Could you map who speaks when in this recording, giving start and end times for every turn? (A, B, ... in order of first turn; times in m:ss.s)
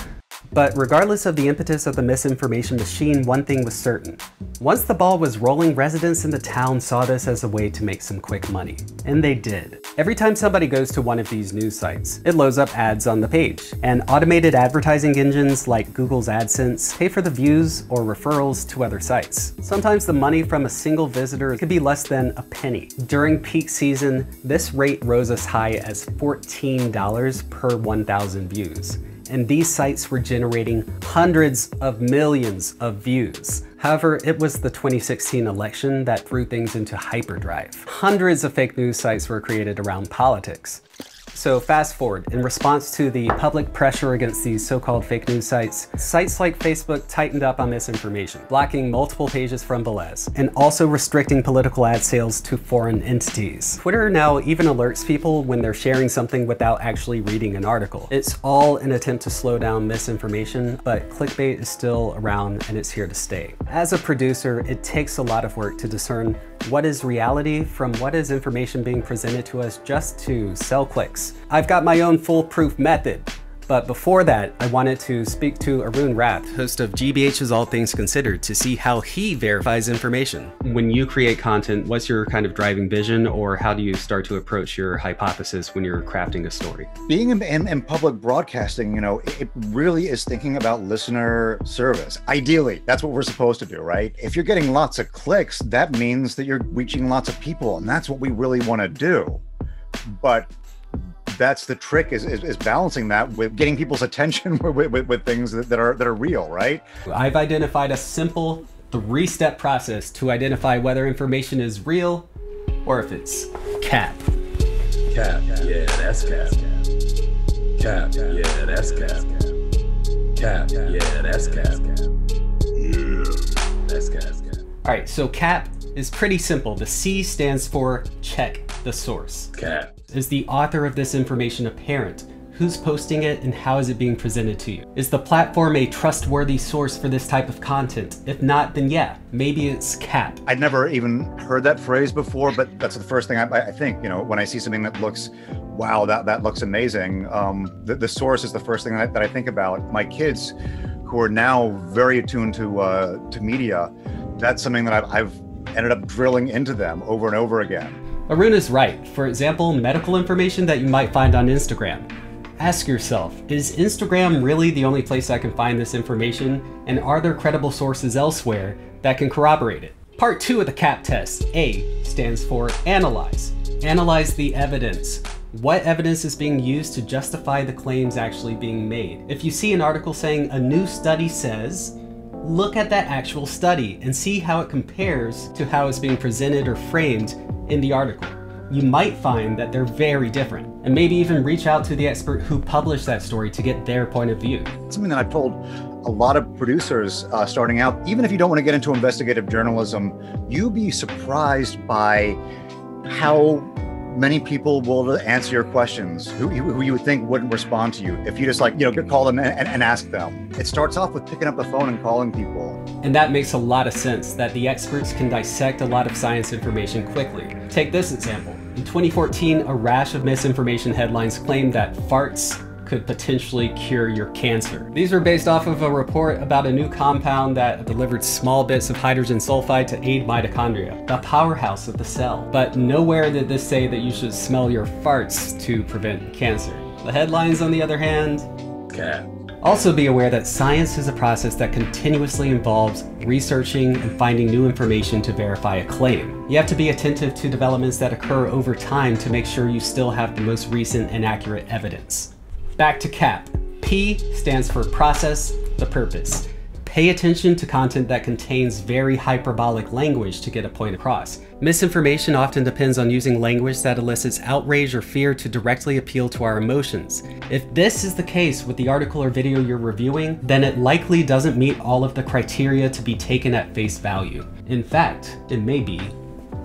0:00.5-0:40.8 A
0:41.3-1:26.9 A
1:27.1-1:39.4 B
1:40.0-1:40.5 B
1:41.3-1:46.8 B
1:47.1-1:52.3 A
1:52.8-1:54.3 A
1:55.1-1:56.7 C
1:57.8-1:59.5 C
2:00.4-2:02.1 C
2:03.8-2:04.6 C
2:04.8-2:09.5 A
2:09.6-2:09.9 C
2:10.1-2:20.4 A
2:20.4-2:38.0 B
2:38.3-2:42.1 A
2:42.6-3:14.7 A
3:14.9-3:22.4 B
3:23.0-3:32.8 B
3:33.0-3:58.5 A
3:58.9-3:59.2 C
3:59.6-4:36.1 A